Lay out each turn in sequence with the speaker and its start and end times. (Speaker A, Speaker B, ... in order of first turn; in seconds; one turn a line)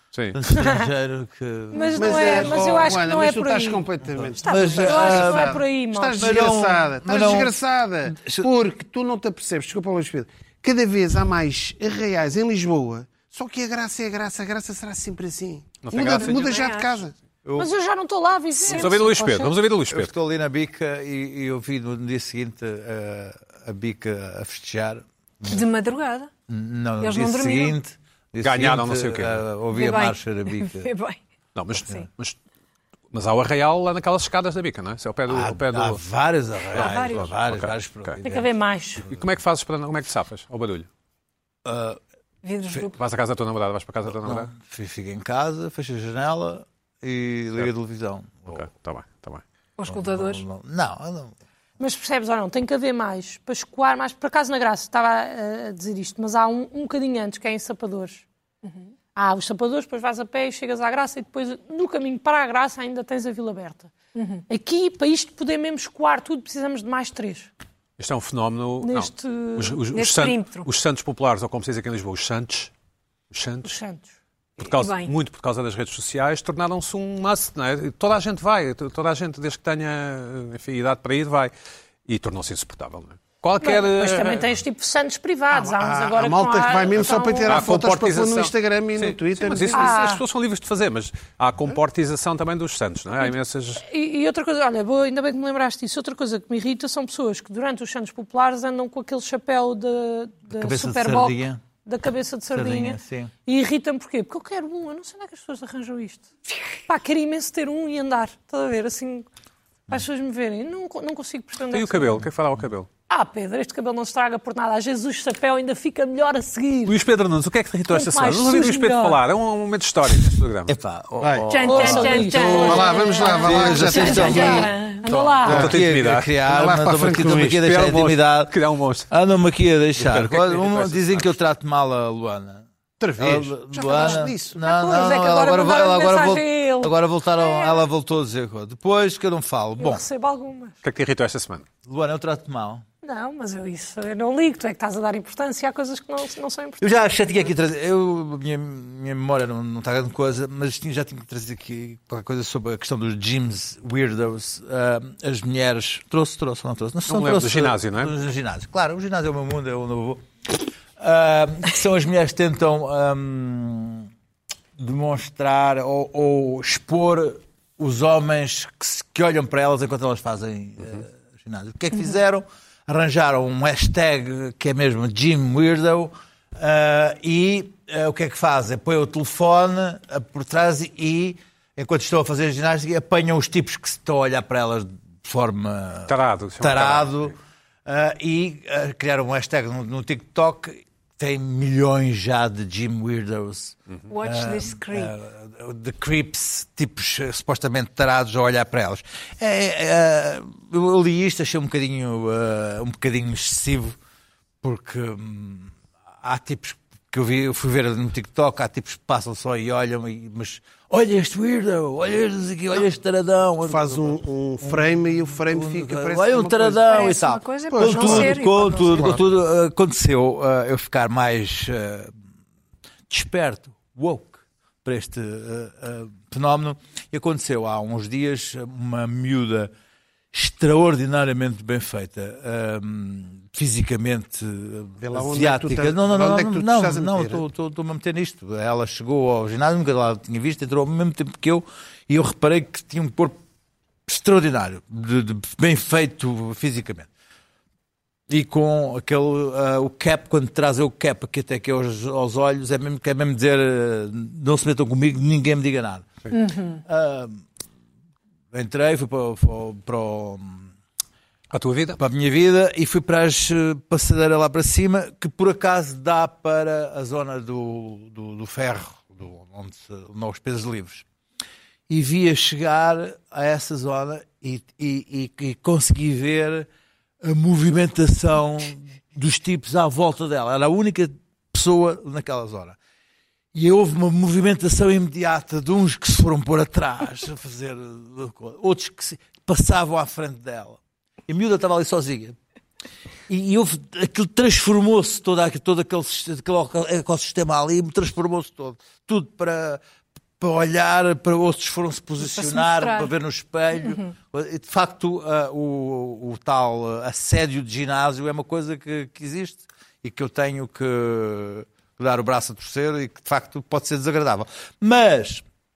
Speaker A: 0.1-0.4
Speaker B: 0.3-2.7
Speaker C: 1.7-3.8
Speaker D: 1.9-17.1
Speaker B: 4.4-5.6
Speaker E: 4.4-5.0
Speaker C: 4.7-6.4
Speaker B: 6.2-7.5
Speaker B: 8.1-8.5
Speaker A: 15.8-16.6
Speaker E: 16.2-16.9
Speaker B: 17.4-17.7
Speaker C: 17.6-19.5
Speaker E: 18.6-18.9
Speaker A: 18.7-20.1
Speaker B: 19.9-25.6
Speaker E: 25.4-26.3
Speaker B: 26.5-30.9
Speaker E: 27.0-27.8
Speaker A: 28.4-29.5
Speaker E: 29.7-31.2
Speaker A: 31.5-32.4
Speaker A: 33.1-36.0
Speaker B: 35.3-38.5
Speaker A: 36.7-38.2
Speaker E: 36.7-37.3
Speaker C: 38.2-39.0
Speaker A: 39.0-40.9
Speaker B: 41.6-42.0
Speaker E: 42.4-43.0
Speaker A: 42.9-44.5
Speaker B: 44.1-48.7
Speaker A: 48.5-49.4
Speaker E: 49.8-50.4
Speaker B: 49.9-51.3
Speaker C: 51.8-58.2
Speaker C: 59.1-63.9
Speaker E: 64.1-64.4
Speaker C: 64.5-67.5
Speaker A: 68.0-72.7
Speaker C: 68.8-69.8
Speaker E: 69.9-70.7
Speaker A: 73.3-73.8
Speaker C: 73.6-74.1
Speaker A: 74.6-81.5
Speaker E: 74.8-75.1
Speaker A: 82.0-84.5
Speaker C: 83.6-87.7
Speaker D: 85.5-90.0
Speaker A: 87.4-93.8
Speaker C: 89.7-90.2
Speaker C: 93.8-106.3
Speaker B: 100.5-101.7
Speaker B: 102.5-103.3
Speaker C: 106.9-109.3
Speaker C: 109.9-112.2
Speaker A: 111.7-112.9
Speaker C: 113.1-117.0
Speaker A: 116.8-120.7
Speaker C: 117.9-119.2
Speaker B: 120.7-128.5
Speaker D: 121.2-124.7
Speaker E: 121.5-125.0
Speaker C: 121.6-125.7
Speaker D: 125.4-125.7
Speaker A: 125.5-126.3
Speaker D: 126.4-127.6
Speaker A: 127.1-129.1
Speaker B: 129.1-132.7
Speaker A: 129.9-131.4
Speaker D: 133.0-134.6
Speaker B: 133.2-140.0
Speaker C: 134.6-137.8
Speaker C: 139.8-140.8
Speaker A: 140.8-141.7
Speaker B: 141.8-142.8
Speaker C: 143.0-147.1
Speaker B: 146.8-164.1
Speaker A: 157.1-158.1
Speaker B: 164.8-187.3
Speaker A: 186.1-187.3
Speaker B: 187.8-204.0
Speaker E: 194.1-195.1
Speaker B: 204.6-214.8
Speaker D: 213.6-217.1
Speaker B: 215.3-222.1
Speaker E: 216.9-219.2
Speaker D: 217.7-219.2
Speaker B: 223.1-229.7
Speaker B: 230.3-243.4
Speaker D: 235.0-237.4
Speaker B: 244.1-247.1
Speaker B: 248.3-257.4
Speaker E: 256.3-256.8
Speaker B: 258.5-260.7
Speaker A: 261.5-262.0
Speaker B: 262.0-271.0
Speaker B: 271.9-276.7
Speaker B: 277.2-282.8
Speaker B: 283.5-292.4
Speaker B: 293.3-299.8
Speaker B: 300.4-315.4
Speaker E: 302.2-303.1
Speaker E: 303.8-304.1